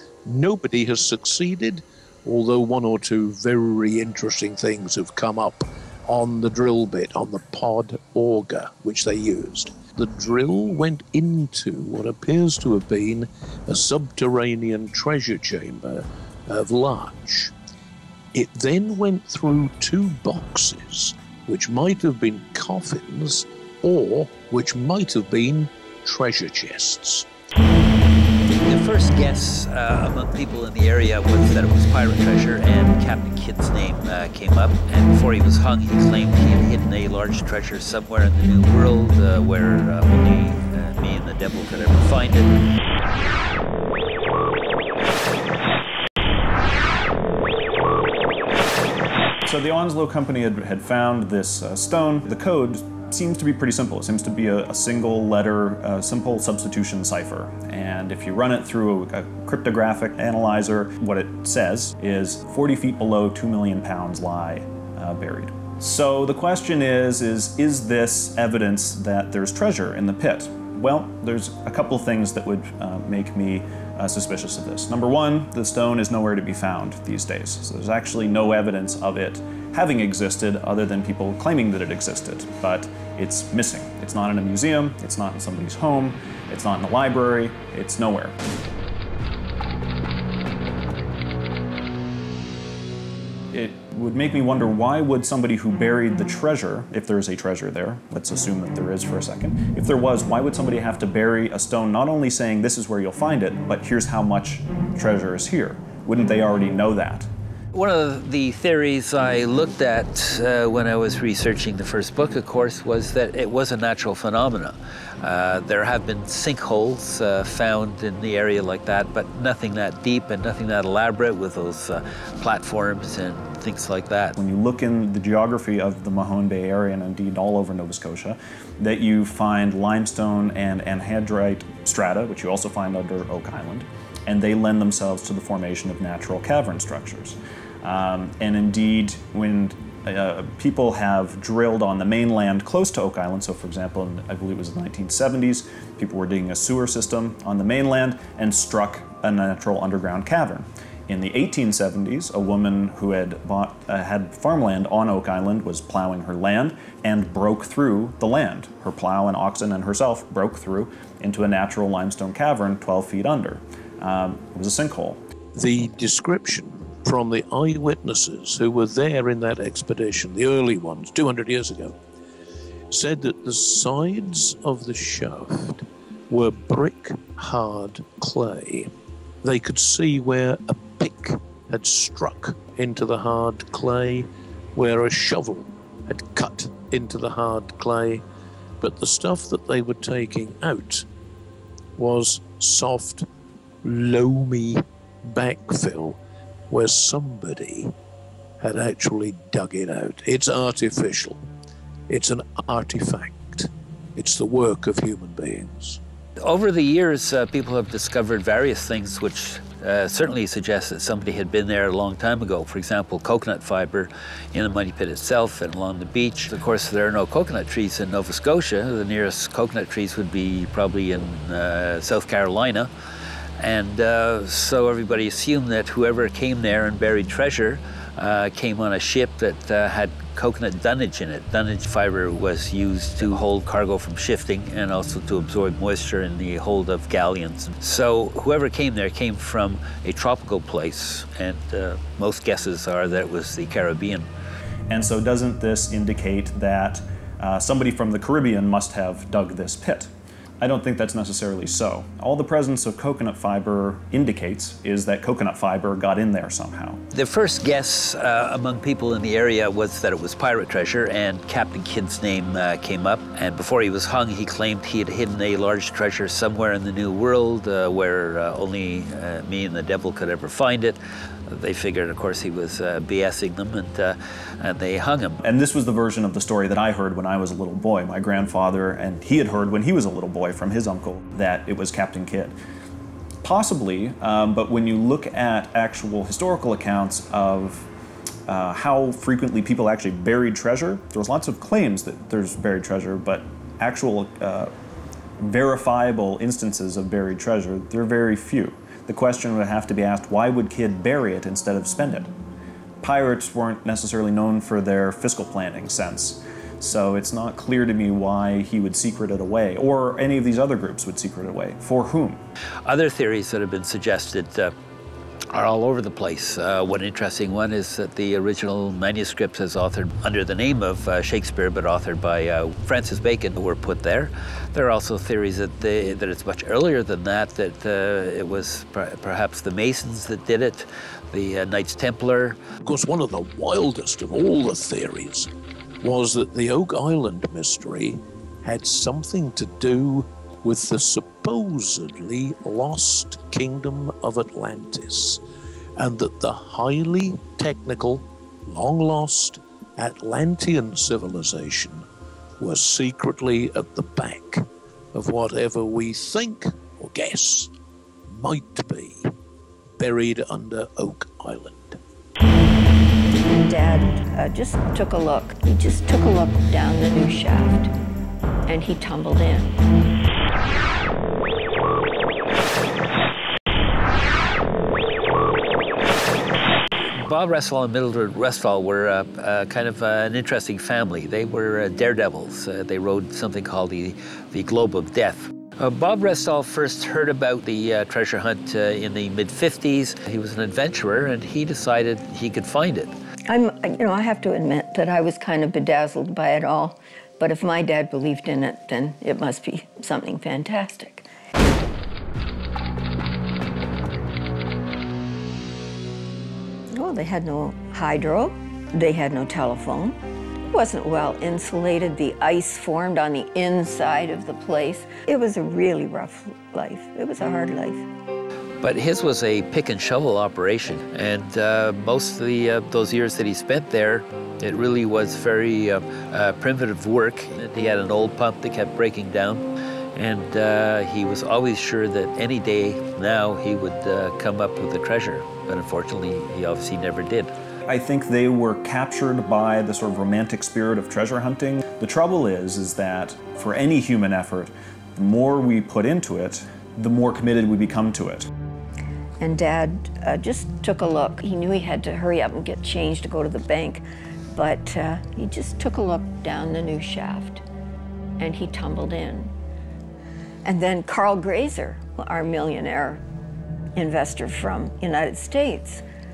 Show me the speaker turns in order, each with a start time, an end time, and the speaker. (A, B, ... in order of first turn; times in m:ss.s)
0:00.2-0:17.5 A
0:18.3-0:27.3 A
0:28.6-0:42.6 B
0:49.4-1:28.4 C
1:33.5-1:47.3 C
1:47.7-2:04.4 B
2:04.4-2:45.2 C
2:45.5-2:52.0 A
2:52.9-2:58.9 A
2:59.4-3:08.2 A
3:08.8-3:11.0 A
3:12.0-3:13.3 A
3:13.8-3:16.2 A
3:16.7-3:17.9 A
3:18.6-3:21.4 A
3:22.1-3:26.0 A
3:26.4-3:42.9 B
3:43.6-4:04.3 B
4:04.9-4:10.1 C
4:10.6-4:17.0 C
4:17.1-4:35.4 B
4:35.4-4:42.5 C
4:43.4-4:47.9 C
4:48.5-4:54.7 C
4:55.4-5:02.3 C
5:03.0-5:12.4 C
5:12.8-5:14.7 B
5:15.5-5:32.6 B
5:32.8-5:35.5 A
5:36.0-5:45.4 A
5:46.0-5:52.0 A
5:52.6-5:57.7 A
5:58.3-5:59.3 A
6:00.0-6:02.0 A
6:03.4-6:07.9 D
6:08.7-6:09.8 D
6:17.0-6:33.1 B
6:33.5-6:41.3 D
6:46.9-6:58.0 D
6:58.8-7:17.5 B
7:17.9-7:28.5 C
7:29.4-7:37.6 D
7:38.4-7:39.5 D
7:40.6-7:43.2 D
7:44.0-7:46.0 D